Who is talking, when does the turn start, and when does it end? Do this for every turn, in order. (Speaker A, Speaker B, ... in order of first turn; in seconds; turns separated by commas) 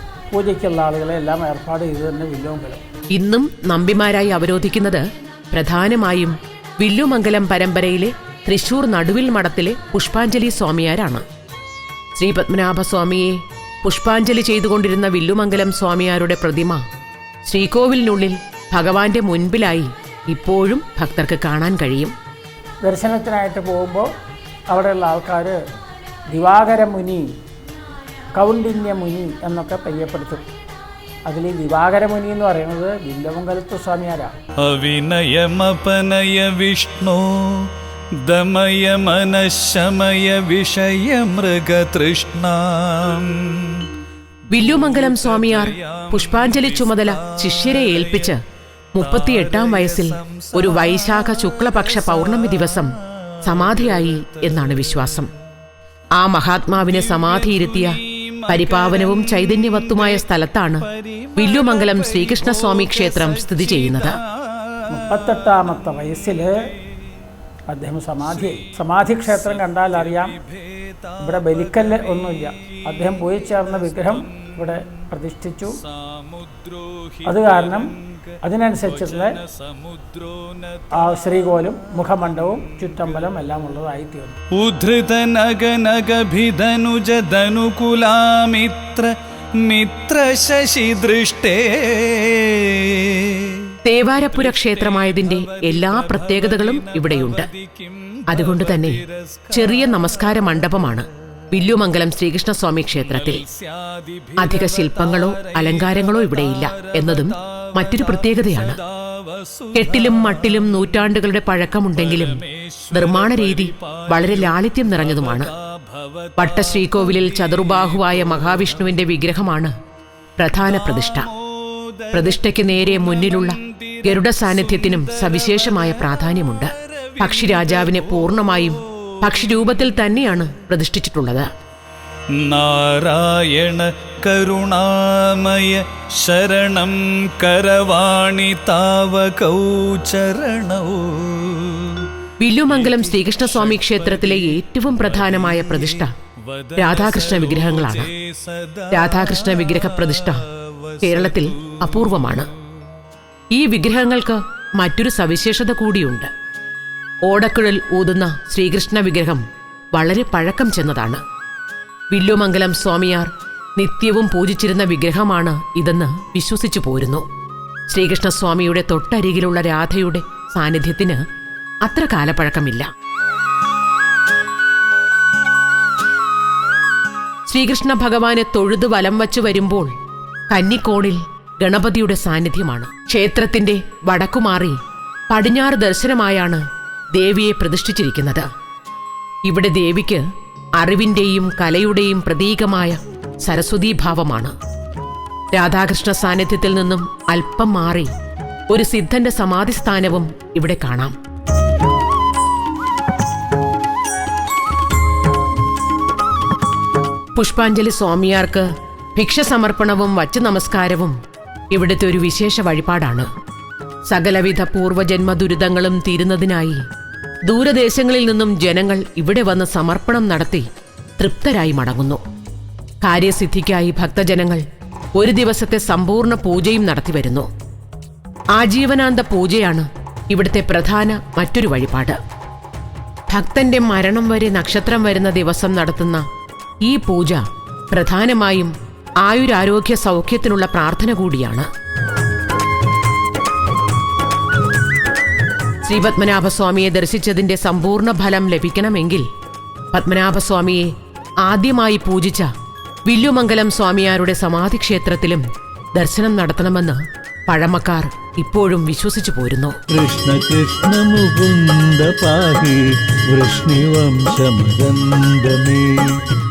Speaker A: 0.3-2.8, Speaker B: 3.1-11.2, Speaker B: 12.2-16.8, Speaker B: 17.4-22.1, Speaker A: 22.8-24.1, Speaker A: 24.7-25.6, Speaker A: 26.3-27.3, Speaker A: 28.4-30.4, Speaker A: 31.2-34.3, Speaker C: 34.6-37.7, Speaker C: 38.2-43.8, Speaker B: 44.5-48.4, Speaker C: 44.5-48.4, Speaker B: 48.9-52.9, Speaker C: 49.0-55.2, Speaker B: 53.5-55.3, Speaker B: 56.2-58.0, Speaker C: 56.8-60.3, Speaker B: 58.5-60.8, Speaker C: 60.8-66.0, Speaker B: 61.4-64.2, Speaker A: 64.9-66.5, Speaker A: 67.7-70.3, Speaker C: 68.2-83.5, Speaker A: 71.2-75.8, Speaker A: 77.2-77.9, Speaker A: 78.4-79.3, Speaker A: 81.0-84.3, Speaker C: 84.6-89.1, Speaker C: 89.6-100.9, Speaker B: 93.8-97.5, Speaker B: 98.3-99.0, Speaker B: 99.5-103.4, Speaker C: 102.9-111.2, Speaker B: 104.4-108.8, Speaker B: 109.7-112.4, Speaker C: 111.9-119.3, Speaker B: 112.9-115.5, Speaker B: 116.4-119.7, Speaker B: 120.4-121.3, Speaker C: 120.6-130.0, Speaker B: 122.1-131.5, Speaker C: 132.3-142.1, Speaker B: 142.4-146.1, Speaker C: 142.6-152.5, Speaker B: 146.8-148.1, Speaker B: 148.9-150.4, Speaker B: 151.0-152.5, Speaker B: 153.5-156.3, Speaker B: 157.2-159.4, Speaker B: 159.9-161.2, Speaker B: 162.1-167.2, Speaker B: 167.9-171.2, Speaker B: 171.8-172.9, Speaker B: 177.5-179.9, Speaker B: 180.5-184.8, Speaker B: 185.3-186.6, Speaker B: 187.1-188.5, Speaker B: 189.4-190.2, Speaker B: 190.8-194.5, Speaker B: 195.5-198.1, Speaker B: 198.7-201.2, Speaker B: 207.3-211.2, Speaker B: 211.7-213.3, Speaker B: 214.1-216.8, Speaker B: 217.4-222.2, Speaker B: 223.0-224.6, Speaker B: 225.2-227.5, Speaker B: 228.5-232.2, Speaker B: 233.3-236.2, Speaker B: 236.8-241.7, Speaker B: 245.8-249.3, Speaker B: 249.9-250.9, Speaker B: 251.4-252.5, Speaker B: 253.1-255.4, Speaker B: 255.9-259.8, Speaker D: 259.9-266.1